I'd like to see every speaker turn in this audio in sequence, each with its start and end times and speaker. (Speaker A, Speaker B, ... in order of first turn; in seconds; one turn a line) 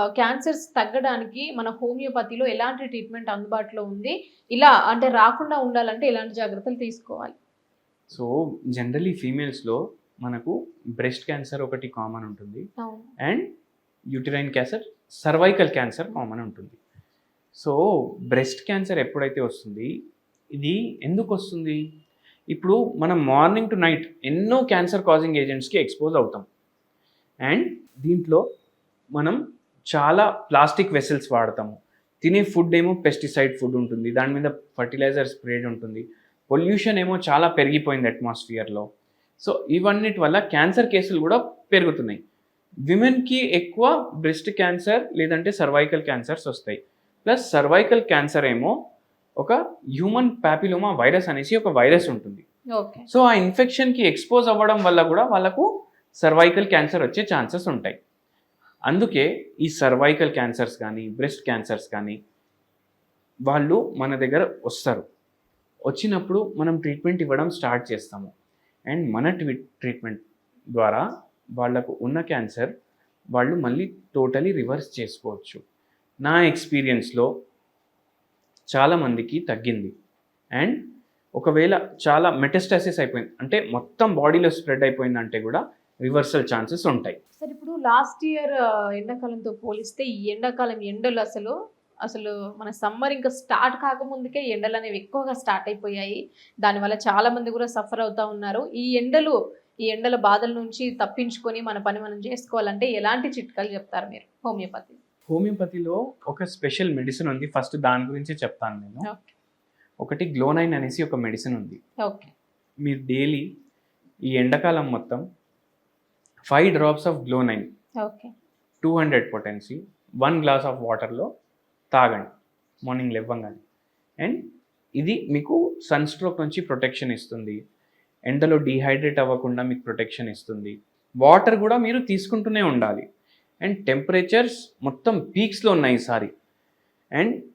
Speaker A: 0.2-7.3
Speaker B: 8.1-12.6
Speaker A: 12.8-13.1
Speaker B: 14.1-16.8
Speaker B: 18.3-19.9
Speaker B: 20.6-21.8
Speaker B: 22.5-26.4
Speaker B: 27.4-28.4
Speaker B: 29.9-38.9
Speaker B: 39.4-42.2
Speaker B: 42.9-48.7
Speaker B: 49.4-52.4
Speaker A: 52.7-53.1
Speaker B: 53.1-55.7
Speaker B: 56.2-58.0
Speaker B: 58.9-62.1
Speaker B: 63.5-65.0
Speaker B: 65.9-68.3
Speaker B: 68.9-70.2
Speaker B: 70.8-71.0
Speaker B: 71.6-72.7
Speaker B: 73.3-75.6
Speaker B: 76.2-77.3
Speaker B: 78.7-79.9
Speaker B: 81.4-87.2
Speaker A: 87.4-91.5
Speaker A: 92.0-99.3
Speaker A: 99.9-105.0
Speaker B: 105.3-109.0
Speaker A: 109.0-109.3
Speaker B: 110.0-111.8
Speaker A: 112.0-112.3
Speaker B: 112.8-113.5
Speaker B: 114.3-115.2
Speaker B: 116.5-117.7
Speaker A: 118.0-118.3
Speaker B: 118.8-121.3
Speaker B: 121.9-122.3
Speaker B: 122.9-123.6
Speaker B: 125.0-127.6
Speaker B: 128.3-133.0
Speaker B: 133.6-136.3